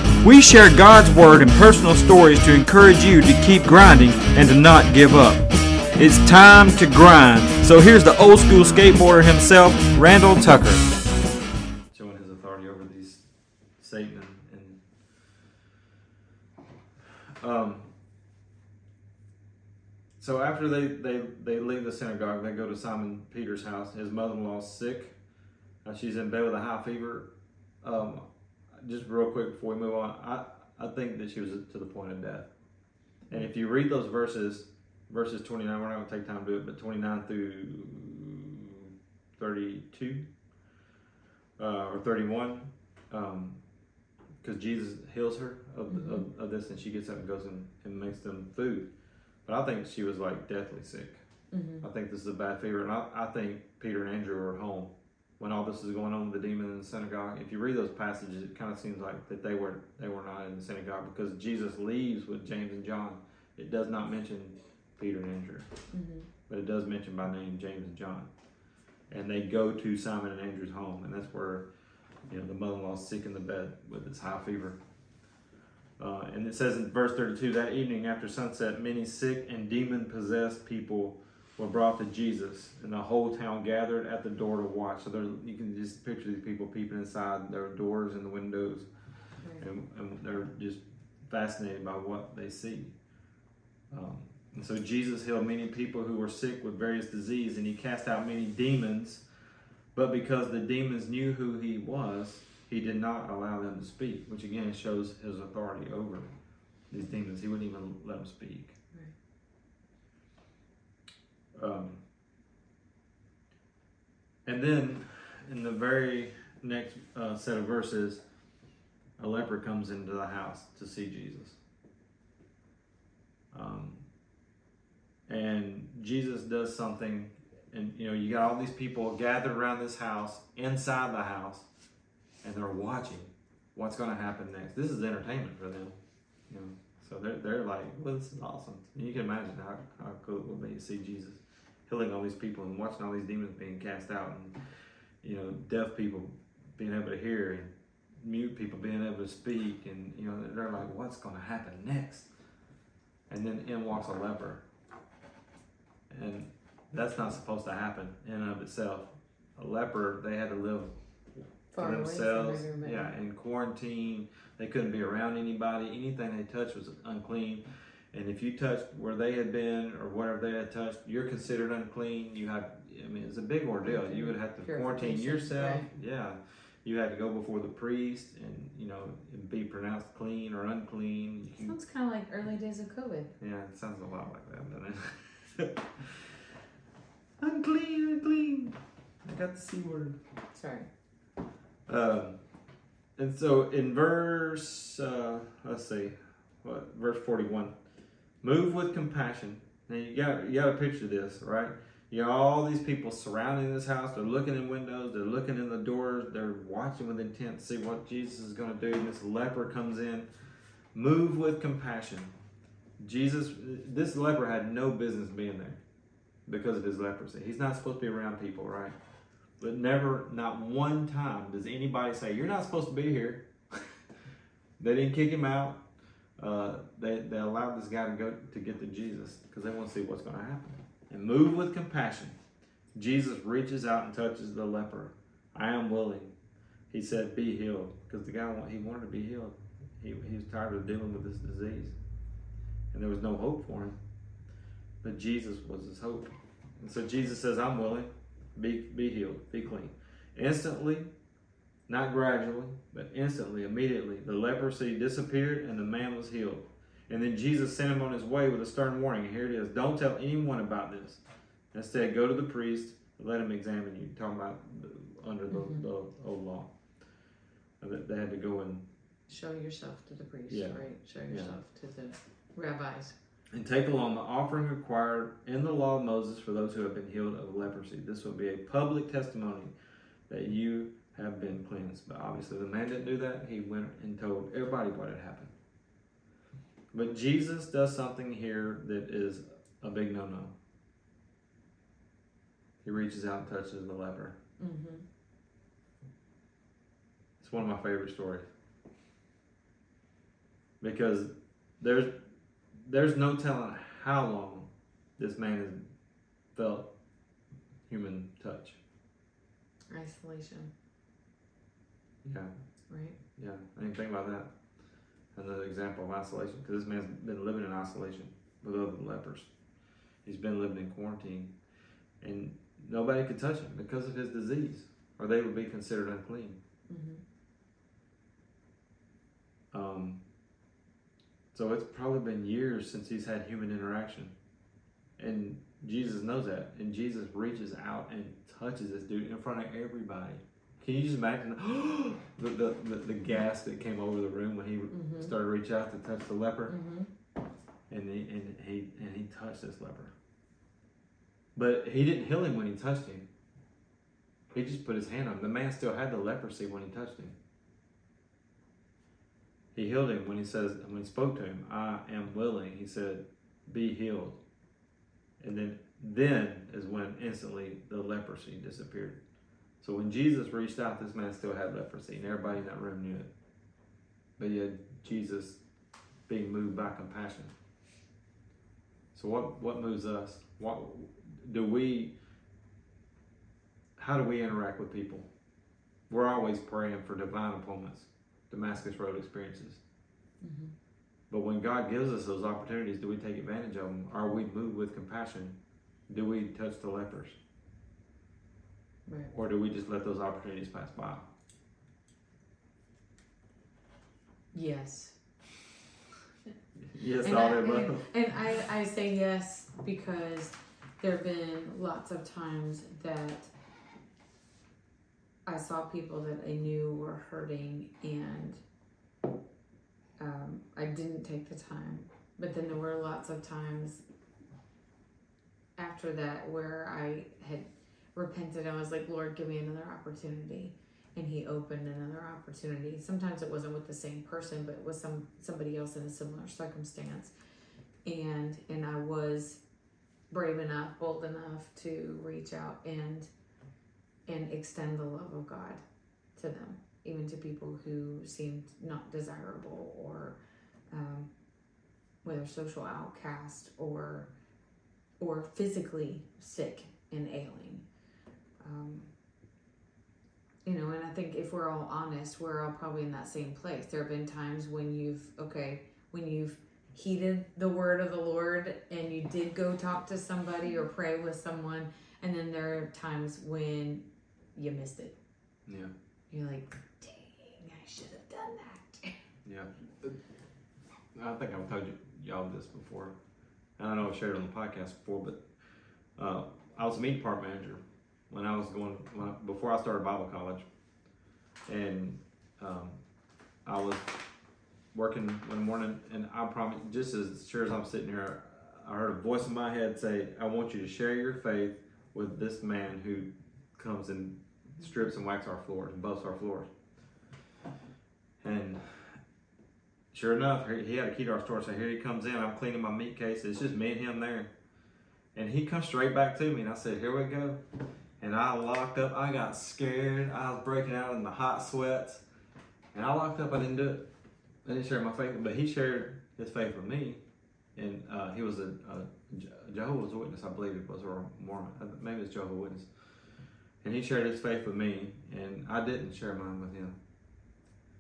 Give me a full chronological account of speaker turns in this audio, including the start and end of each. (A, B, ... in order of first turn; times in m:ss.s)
0:00.2-0:10.9 A
0:11.9-0:13.3 A
0:13.8-0:14.8 A
0:17.4-0:17.9 A
0:20.2-0:25.2 A
0:25.8-0:27.3 A
0:27.8-0:28.3 A
0:28.8-0:32.5 A
0:33.3-0:40.2 A
0:41.6-0:43.6 A
0:44.4-0:48.9 A
0:45.9-0:46.3 B
0:49.4-0:51.2 A
0:51.5-0:51.9 B
0:51.8-1:05.7 A
1:05.9-1:06.3 B
1:06.5-1:08.3 A
1:09.1-1:11.7 A
1:12.3-1:14.8 A
1:16.0-1:28.9 A
1:29.6-1:33.0 A
1:33.9-1:39.3 A
1:39.9-1:46.3 A
1:46.9-1:48.8 A
1:51.5-1:52.0 A
1:54.4-1:58.2 A
1:59.2-2:01.6 A
2:03.5-2:04.0 A
2:05.3-2:11.7 A
2:12.4-2:16.0 A
2:16.5-2:24.6 A
2:25.2-2:32.3 A
2:33.3-2:34.6 A
2:36.1-2:41.0 A
2:41.7-2:43.1 B
2:41.7-3:01.8 A
2:53.8-2:55.9 B
3:01.6-3:03.3 B
3:03.4-3:06.3 A
3:07.4-3:10.2 A
3:10.5-3:10.9 B
3:11.9-3:12.4 A
3:13.2-3:17.8 A
3:18.4-3:30.3 A
3:30.9-3:32.3 A
3:33.0-3:35.8 A
3:36.5-3:39.0 A
3:39.6-3:44.0 A
3:44.8-3:45.8 A
3:46.4-3:52.4 A
3:53.0-3:56.3 A
3:56.9-4:02.0 A
4:02.9-4:04.0 A
4:05.0-4:11.1 A
4:11.9-4:21.2 A
4:21.7-4:26.7 A
4:25.5-4:25.9 B
4:27.8-4:28.9 A
4:29.3-4:33.2 B
4:30.5-4:31.6 A
4:33.5-4:39.7 A
4:40.3-4:45.5 A
4:46.9-4:50.6 A
4:52.8-4:54.4 A
4:54.6-4:55.0 B
4:57.4-4:58.5 A
5:00.8-5:02.1 A
5:02.8-5:05.9 A
5:06.5-5:06.9 A
5:07.9-5:08.8 A
5:09.9-5:10.7 B
5:12.2-5:12.5 A
5:12.9-5:13.2 B
5:13.3-5:14.5 A
5:15.3-5:19.5 A
5:20.2-5:21.5 A
5:22.2-5:26.6 A
5:26.9-5:27.2 B
5:29.7-5:30.2 A
5:31.5-5:34.4 A
5:35.2-5:46.8 A
5:44.9-5:45.3 B
5:46.7-5:47.1 B
5:47.9-5:50.1 A
5:51.6-5:53.3 A
5:54.5-5:57.4 A
5:59.7-6:04.4 A
6:05.4-6:09.2 A
6:09.8-6:13.3 A
6:14.4-6:15.6 A
6:16.3-6:17.6 A
6:19.1-6:22.2 A
6:24.0-6:25.3 A
6:26.1-6:29.8 A
6:30.4-6:30.7 B
6:31.3-6:35.6 A
6:36.1-6:37.4 A
6:39.1-6:39.3 B
6:39.3-6:41.3 A
6:44.5-6:45.2 B
6:46.8-6:48.1 A
6:47.2-6:53.5 B
6:55.5-6:58.6 B
7:00.2-7:04.0 B
7:05.8-7:17.3 B
7:18.0-7:19.6 B
7:20.3-7:23.3 B
7:24.3-7:25.8 B
7:26.4-7:30.4 B
7:30.9-7:31.3 B
7:32.2-7:34.3 B
7:35.2-7:37.9 B
7:38.6-7:39.1 B
7:40.6-7:54.0 B
7:54.6-7:55.1 B
7:55.7-7:55.9 A
7:56.3-7:59.1 B
7:59.4-8:00.2 A
8:01.1-8:03.2 A
8:03.8-8:05.5 A
8:06.2-8:10.7 A
8:11.7-8:13.0 A
8:13.6-8:14.1 A
8:14.9-8:26.7 A
8:28.4-8:29.2 A
8:30.1-8:34.5 A
8:35.3-8:37.6 A
8:38.2-8:42.2 A
8:42.9-8:44.1 A
8:44.6-8:47.2 A
8:47.8-8:52.9 A
8:53.8-8:57.0 A